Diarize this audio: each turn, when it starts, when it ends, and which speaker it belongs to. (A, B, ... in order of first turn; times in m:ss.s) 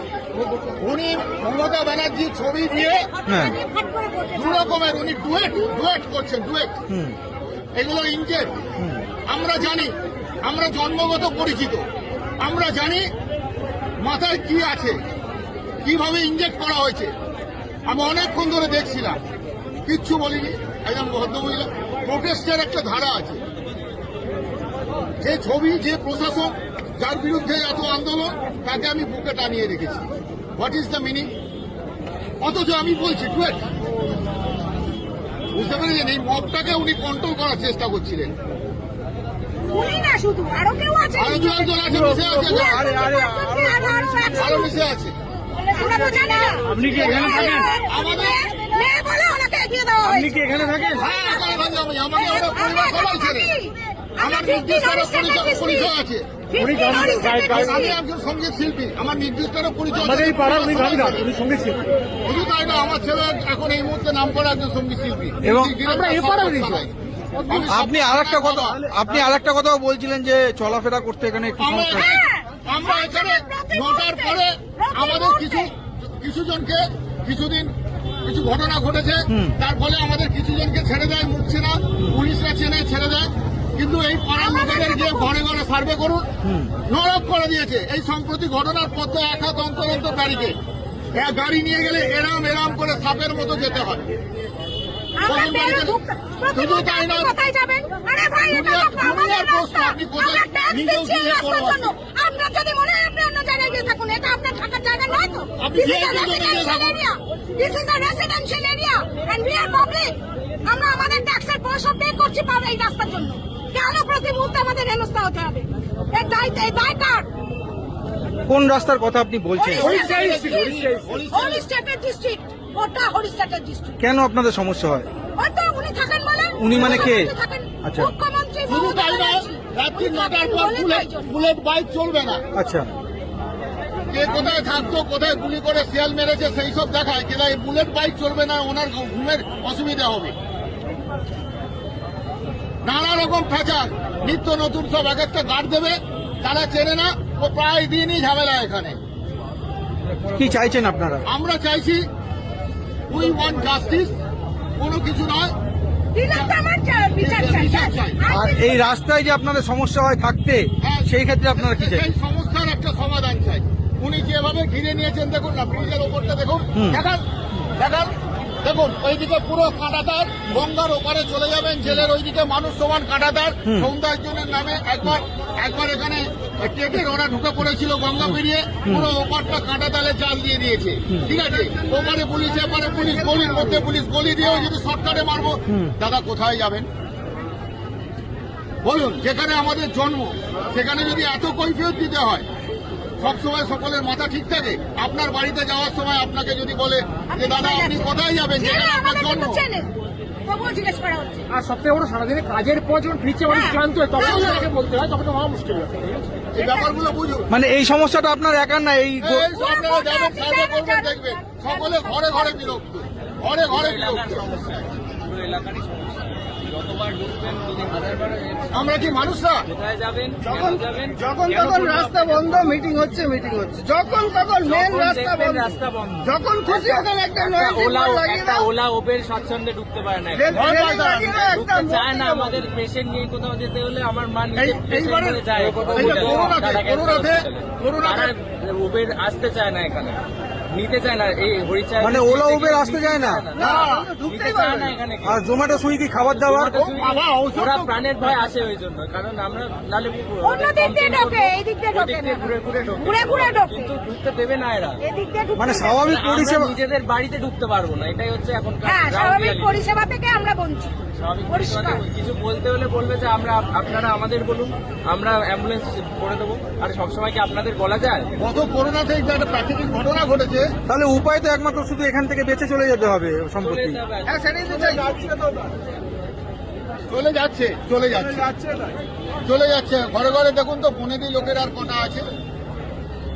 0:00.6-0:03.1 A
0:02.7-0:05.0 B
0:03.3-0:03.6 C
0:04.3-0:06.8 A
0:06.9-0:07.2 C
0:07.8-0:08.5 A
0:08.8-0:09.1 C
0:09.3-0:11.8 A
0:12.4-0:13.1 A
0:14.0-0:15.0 A
0:15.8-0:17.1 A
0:17.9-0:19.2 A
0:19.8-0:23.4 A
0:25.2-0:31.3 A
0:32.4-0:33.6 A
0:35.5-0:38.3 A
0:39.7-0:44.7 B
0:41.2-0:42.9 A
0:44.3-0:45.2 A
0:45.6-0:56.0 B
0:46.6-0:47.8 D
0:46.8-0:47.6 E
0:47.9-0:48.4 A
0:50.2-0:51.0 D
0:50.2-0:50.8 E
0:50.9-0:53.5 A
0:54.2-0:56.3 A
0:56.5-0:58.0 B
0:56.6-0:57.9 E
0:57.0-1:01.3 A
1:00.0-1:01.9 E
1:02.3-1:07.0 A
1:05.4-1:05.7 C
1:05.8-1:06.8 E
1:07.5-1:08.9 A
1:07.7-1:12.2 C
1:11.6-1:17.7 A
1:12.0-1:15.7 B
1:18.2-1:30.6 A
1:24.4-1:25.4 B
1:26.4-1:26.7 C
1:31.1-1:34.1 A
1:35.2-1:57.3 B
1:35.2-1:36.0 A
1:36.5-1:37.3 A
1:38.5-1:41.9 A
1:45.6-1:47.0 A
1:58.5-2:00.0 C
1:59.6-2:04.0 B
1:59.7-2:01.6 A
1:59.8-2:01.1 E
2:04.0-2:05.1 C
2:05.4-2:11.3 B
2:06.6-2:07.3 C
2:07.8-2:08.1 C
2:08.7-2:12.4 A
2:12.5-2:12.9 C
2:14.1-2:20.4 A
2:22.8-2:29.0 A
2:30.3-2:31.2 C
2:31.2-2:32.1 A
2:33.1-2:34.2 A
2:34.8-2:35.5 A
2:36.2-2:38.7 B
2:37.2-2:38.2 A
2:38.3-2:42.1 C
2:40.8-2:47.2 A
2:46.8-2:47.0 C
2:47.8-3:06.9 A
2:58.2-2:59.1 C
3:08.8-3:12.5 A
3:13.2-3:19.6 A
3:17.3-3:19.9 B
3:20.5-3:21.5 B
3:21.5-3:26.3 E
3:23.5-3:24.4 B
3:24.2-3:24.7 A
3:26.6-3:27.5 A
3:26.6-3:27.0 B
3:27.5-3:29.5 C
3:29.2-3:34.6 A
3:29.5-3:32.8 B
3:33.7-3:42.8 D
3:38.7-3:39.6 A
3:40.4-3:48.7 F
3:44.6-3:50.5 D
3:50.4-3:52.6 F
3:50.5-3:51.5 A
3:51.5-4:05.5 D
3:54.6-3:58.3 A
4:02.0-4:03.4 C
4:03.6-4:05.0 F
4:03.6-4:04.1 A
4:05.2-4:06.9 C
4:06.3-4:15.0 D
4:06.9-4:07.9 A
4:10.4-4:13.9 B
4:15.0-4:16.1 B
4:15.6-4:16.7 C
4:16.0-4:19.8 D
4:18.8-4:20.9 B
4:21.2-4:28.3 D
4:21.5-4:22.0 B
4:28.4-4:30.7 A
4:30.9-4:34.0 C
4:33.6-4:35.2 D
4:34.3-4:35.4 F
4:37.1-4:38.6 A
4:39.4-4:42.3 A